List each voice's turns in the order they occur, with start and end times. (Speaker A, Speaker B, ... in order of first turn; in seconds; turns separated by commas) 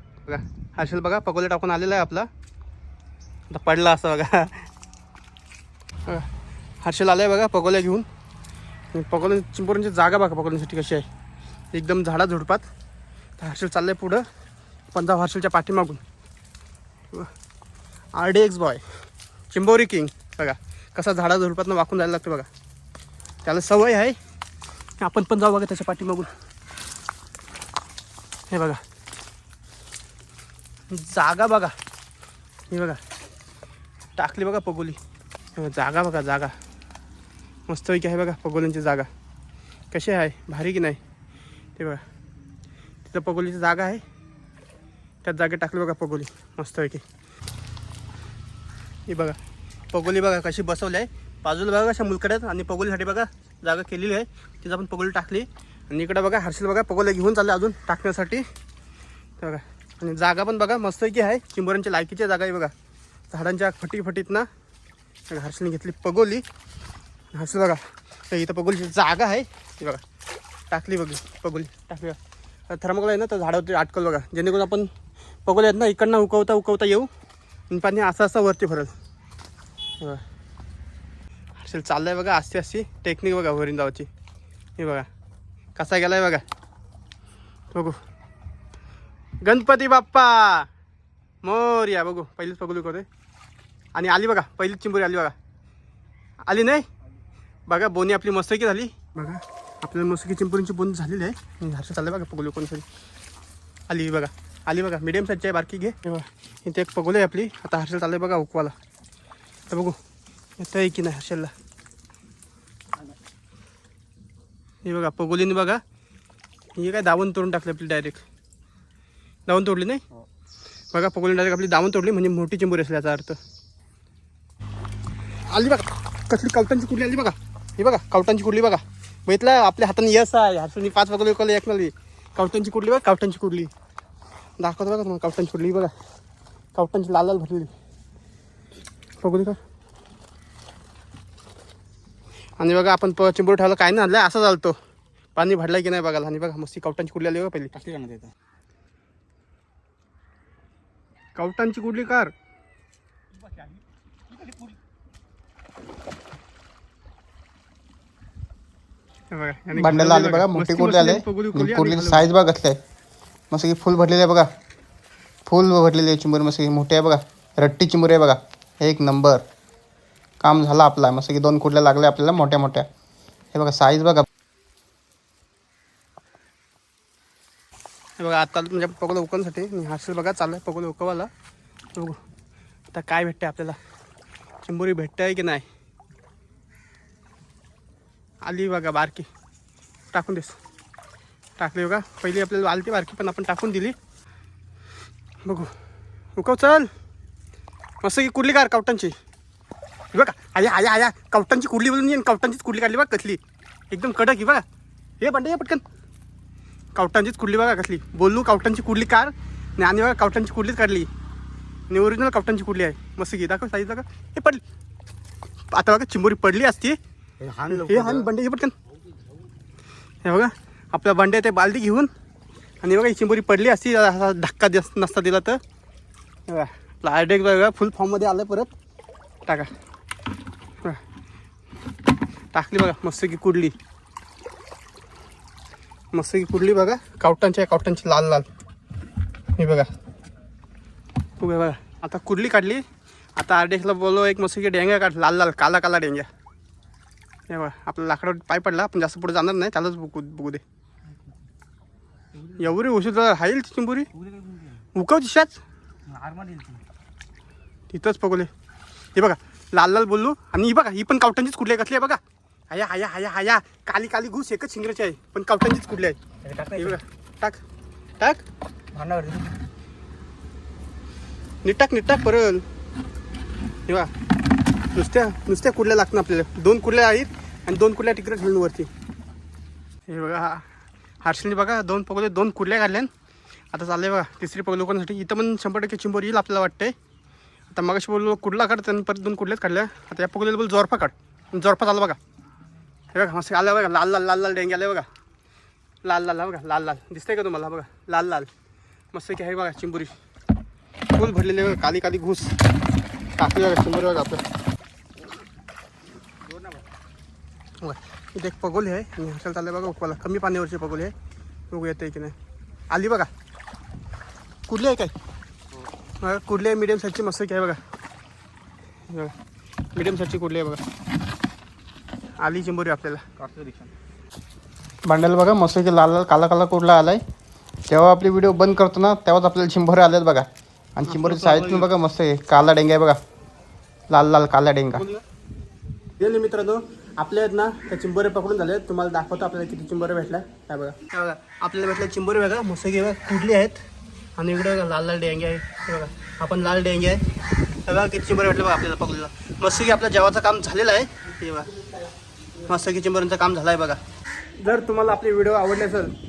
Speaker A: 0.2-2.3, Speaker A: 3.5-4.7, Speaker A: 6.8-8.1, Speaker A: 8.9-11.1, Speaker A: 11.7-12.7, Speaker A: 13.4-14.2, Speaker A: 14.9-16.0, Speaker A: 18.1-18.8, Speaker A: 19.5-22.5, Speaker A: 23.4-24.2, Speaker A: 25.0-26.3, Speaker A: 28.5-28.8, Speaker A: 30.9-31.7, Speaker A: 32.7-33.0, Speaker A: 34.2-35.0, Speaker A: 35.5-36.5, Speaker A: 37.7-39.1, Speaker A: 39.9-41.0, Speaker A: 41.8-42.0, Speaker A: 43.0-44.0, Speaker A: 45.2-47.0, Speaker A: 49.1-49.4, Speaker A: 49.9-58.5, Speaker A: 59.4-62.7, Speaker A: 63.3-64.5, Speaker A: 65.3-66.4, Speaker A: 67.3-70.0, Speaker A: 70.7-72.2, Speaker A: 72.7-74.9, Speaker A: 75.5-77.1, Speaker A: 77.7-78.9, Speaker A: 81.6-84.1, Speaker A: 84.8-85.1, Speaker A: 85.8-86.4, Speaker A: 87.7-88.0, Speaker A: 89.4-90.7, Speaker A: 91.4-93.0, Speaker A: 93.9-95.3, Speaker A: 96.5-96.9, Speaker A: 97.7-102.8, Speaker A: 103.9-108.7, Speaker A: 109.7-110.0, Speaker A: 110.6-111.5, Speaker A: 114.8-115.8, Speaker A: 116.8-118.2, Speaker A: 119.5-120.0, Speaker A: 120.9-123.4, Speaker A: 125.5-133.7, Speaker A: 134.6-135.9, Speaker A: 136.7-137.7, Speaker A: 139.2-139.6, Speaker A: 142.6-144.8, Speaker A: 145.3-147.8, Speaker B: 147.8-148.3, Speaker A: 151.3-152.3, Speaker B: 154.3-154.7, Speaker A: 159.3-162.3, Speaker C: 159.8-162.8, Speaker C: 163.5-164.5, Speaker C: 165.4-169.4, Speaker C: 170.4-172.9, Speaker C: 173.5-174.2, Speaker A: 178.2-181.3, Speaker A: 181.9-182.2, Speaker A: 182.9-183.8, Speaker A: 184.6-185.7, Speaker A: 188.4-189.3, Speaker A: 190.1-190.6, Speaker A: 191.6-193.9, Speaker A: 195.4-195.7, Speaker A: 196.3-196.9, Speaker A: 198.0-199.2, Speaker A: 200.1-203.4, Speaker A: 203.9-204.6, Speaker A: 205.2-205.8, Speaker A: 206.9-211.1, Speaker A: 211.9-214.6, Speaker A: 215.7-217.0, Speaker B: 217.4-218.1, Speaker A: 217.7-218.7, Speaker A: 220.2-222.1, Speaker A: 222.8-225.6, Speaker A: 226.5-228.7, Speaker A: 232.5-233.7, Speaker A: 236.1-238.5, Speaker A: 239.6-239.9, Speaker A: 241.4-242.8, Speaker A: 243.4-246.3, Speaker A: 247.5-250.6, Speaker A: 252.4-254.1, Speaker B: 254.2-254.8, Speaker A: 254.9-255.6, Speaker B: 256.1-256.8, Speaker A: 257.9-258.5, Speaker A: 259.1-266.2, Speaker B: 266.4-267.0, Speaker A: 266.7-267.6, Speaker B: 268.9-269.6, Speaker A: 271.6-272.6, Speaker A: 274.9-278.9, Speaker A: 280.1-280.6, Speaker A: 281.2-283.1, Speaker A: 283.7-286.9, Speaker A: 287.7-292.2, Speaker A: 293.1-295.1, Speaker A: 296.0-298.5, Speaker A: 299.1-300.1, Speaker A: 301.1-302.6, Speaker A: 303.4-304.4, Speaker B: 306.5-306.8, Speaker A: 307.8-311.1, Speaker A: 311.7-312.3, Speaker A: 312.9-313.3, Speaker A: 314.7-315.1, Speaker A: 316.2-317.8, Speaker A: 319.9-320.8, Speaker A: 322.4-323.2, Speaker B: 323.4-323.9, Speaker C: 325.1-327.2, Speaker C: 327.9-333.2, Speaker B: 331.1-331.6, Speaker A: 331.3-331.8, Speaker C: 334.1-335.1, Speaker A: 336.2-343.8, Speaker A: 344.4-347.2, Speaker A: 347.9-351.8, Speaker A: 352.6-354.0, Speaker A: 354.6-356.1